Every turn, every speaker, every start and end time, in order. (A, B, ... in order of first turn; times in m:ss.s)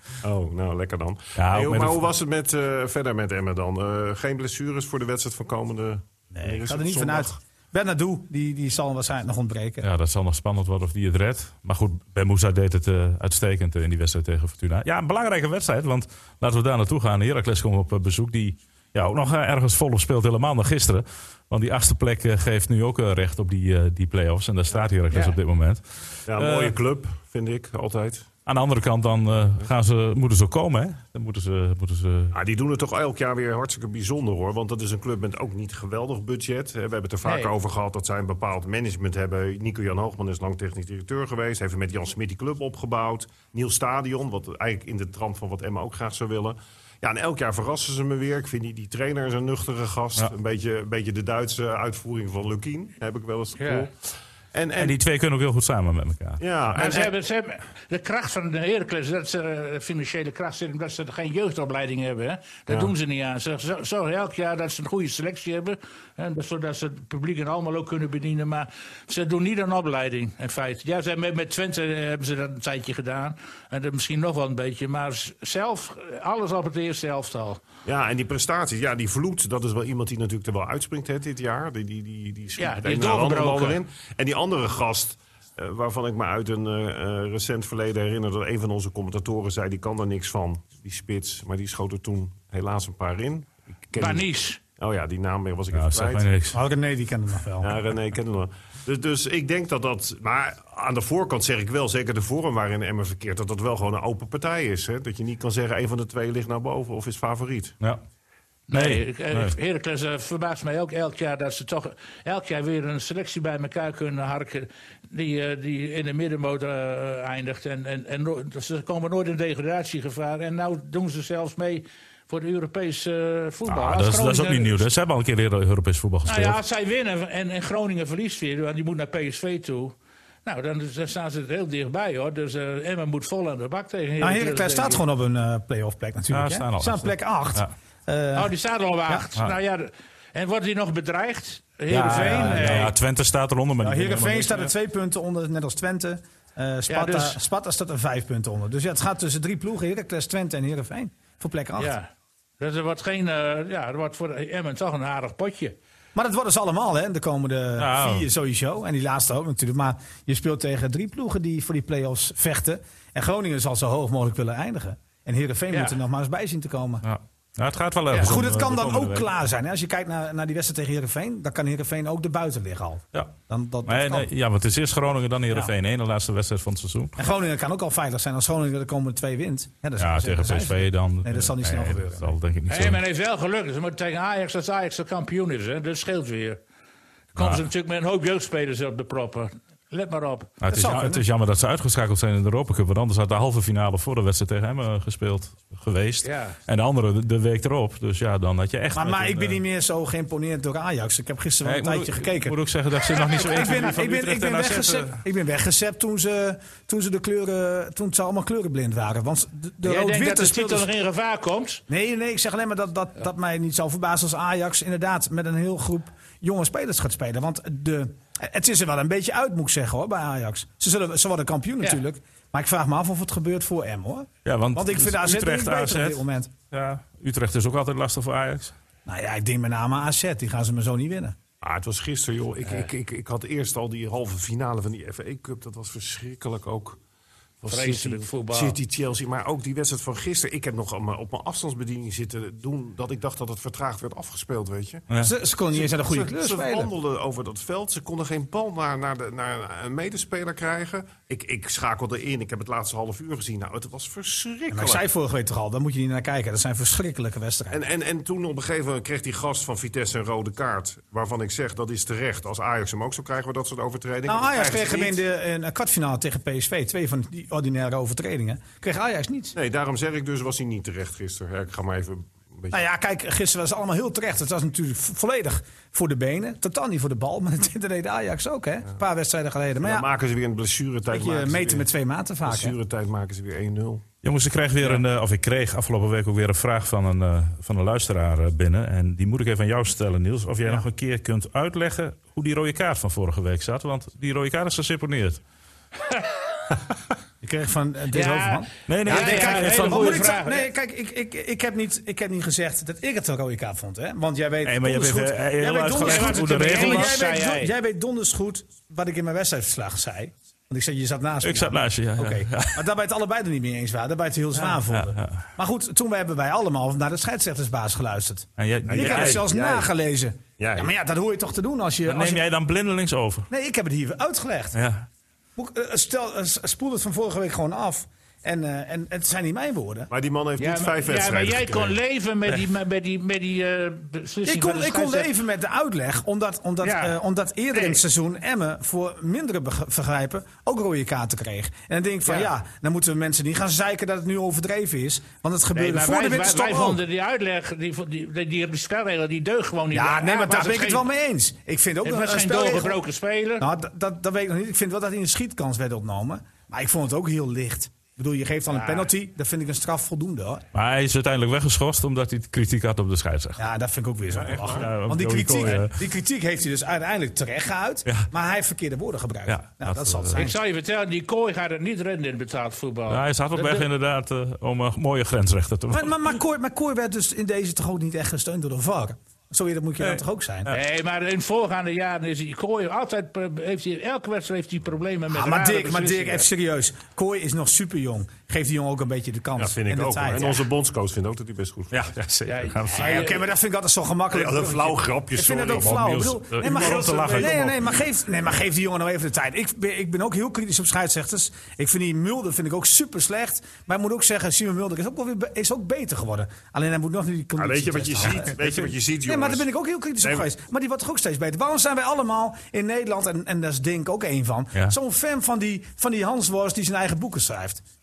0:00.2-0:07.3 A
0:01.4-0:02.0 B
0:06.3-0:09.9 C
0:09.8-0:26.7 B
0:25.1-0:25.4 D
0:26.3-0:28.3 A
0:28.4-0:32.3 B
0:32.3-0:53.9 A
0:37.2-0:37.5 D
0:53.6-0:53.9 D
0:54.5-0:55.0 A
0:54.8-0:56.4 B
0:56.4-0:57.1 A
0:56.7-1:17.6 D
1:17.8-1:36.3 A
1:22.6-1:23.8 D
1:34.0-1:34.6 D
1:35.7-1:36.6 B
1:36.5-1:37.7 C
1:37.6-1:47.8 A
1:48.7-2:04.8 D
1:48.7-1:49.5 B
2:03.7-2:06.6 B
2:06.2-2:15.0 D
2:14.2-2:18.5 C
2:16.3-2:17.7 B
2:18.3-2:22.9 D
2:21.9-2:24.7 B
2:21.9-2:22.9 C
2:23.8-2:32.0 C
2:26.9-2:27.4 D
2:31.8-2:35.8 D
2:36.1-2:47.0 C
2:37.8-2:38.3 B
2:45.7-2:46.0 D
2:47.0-2:49.3 B
2:48.2-2:54.3 C
2:53.8-2:57.1 B
2:57.2-3:02.4 C
3:00.0-3:03.0 B
3:02.7-3:06.6 D
3:07.3-3:10.5 D
3:07.4-3:07.6 B
3:10.6-3:19.6 B
3:10.7-3:11.2 C
3:16.2-3:16.6 D
3:18.9-3:22.6 C
3:21.6-3:25.2 B
3:23.1-3:30.9 C
3:29.8-3:31.8 D
3:31.9-3:46.5 C
3:44.4-3:48.7 B
3:49.0-3:51.4 C
3:51.6-3:57.0 A
3:57.6-4:05.1 A
3:57.6-3:58.8 D
4:05.2-4:06.9 C
4:05.7-4:15.0 A
4:14.7-4:17.8 C
4:17.7-4:25.2 A
4:24.2-4:29.5 C
4:29.5-4:32.8 A
4:32.7-4:40.1 C
4:39.8-4:41.9 A
4:41.1-4:42.8 C
4:42.4-4:44.0 A
4:44.2-4:55.4 B
4:57.4-5:22.4 C
4:58.1-5:00.7 D
4:58.9-5:00.3 B
5:04.6-5:07.2 B
5:05.9-5:07.7 D
5:11.4-5:12.8 B
5:14.6-5:15.4 B
5:18.6-5:19.5 B
5:18.9-5:19.9 A
5:20.6-5:20.9 A
5:22.0-5:23.5 B
5:23.5-5:24.8 C
5:24.7-5:25.1 B
5:25.6-5:30.1 C
5:30.1-5:32.0 A
5:30.6-5:35.3 D
5:34.4-5:47.0 C
5:36.8-5:37.2 D
5:45.7-5:51.1 D
5:49.9-5:53.0 C
5:52.0-5:53.7 D
5:53.6-6:00.6 C
5:58.7-5:59.1 D
6:00.7-6:03.6 B
6:03.6-6:10.6 C
6:04.3-6:04.9 A
6:04.7-6:05.9 B
6:09.5-6:10.4 B
6:10.3-6:13.9 D
6:13.1-6:16.2 B
6:15.9-6:20.7 C
6:20.0-6:20.8 B
6:20.7-6:26.5 D
6:25.3-6:30.7 C
6:29.6-6:32.0 A
6:31.9-6:33.2 B
6:32.5-6:33.4 D
6:32.9-6:48.6 C
6:34.3-6:37.6 A
6:35.7-6:38.0 B
6:47.6-6:49.6 A
6:48.6-6:48.9 B
6:49.2-6:57.8 C
6:50.2-6:50.5 A